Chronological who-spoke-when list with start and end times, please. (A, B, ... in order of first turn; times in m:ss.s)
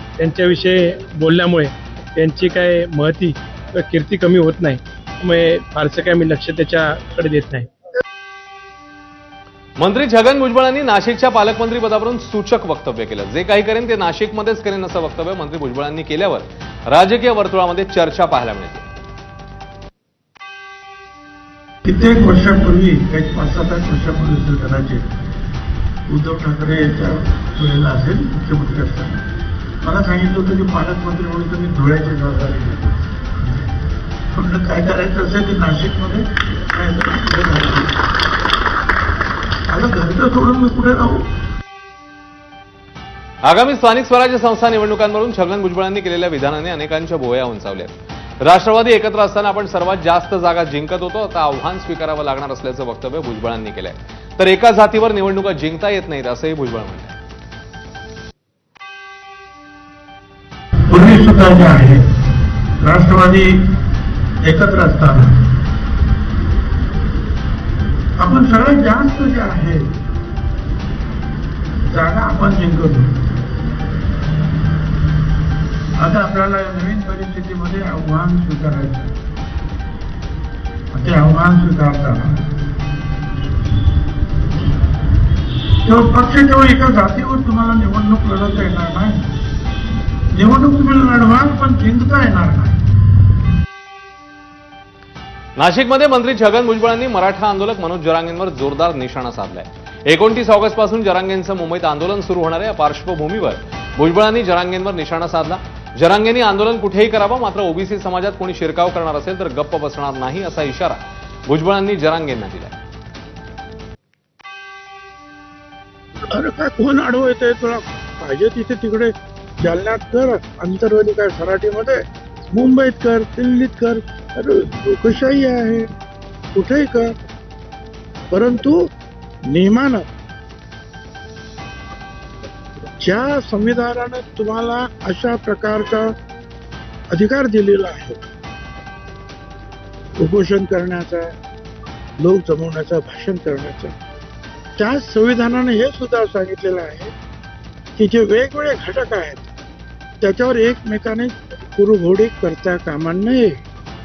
0:00.2-0:07.7 A
0:09.8-0:18.9 B
0:21.8-0:25.1 C
0:26.1-0:29.2 C
0:29.8-0:32.9 C
0:34.3-0:37.9 C
0:39.7-0:41.2 C
0:43.4-0:57.2 B
1:00.9-1:02.0 C
1:02.8-1:03.7 C
1:04.4-1:05.4 C
1:08.2-1:09.9 C
1:11.9-1:13.1 C
1:16.0-1:19.1 C
1:20.9-1:22.5 C
1:25.8-1:29.3 C
1:30.3-1:32.9 C
1:35.6-1:52.8 B
1:56.3-2:05.9 C
2:06.5-2:07.1 C
2:08.3-2:08.8 C
2:09.5-2:10.0 C
2:13.0-2:16.1 C
2:17.1-2:18.2 C
2:20.2-2:21.3 C
2:22.2-2:23.9 C
2:24.8-2:27.1 C
2:28.0-2:29.5 C
2:30.2-2:33.6 C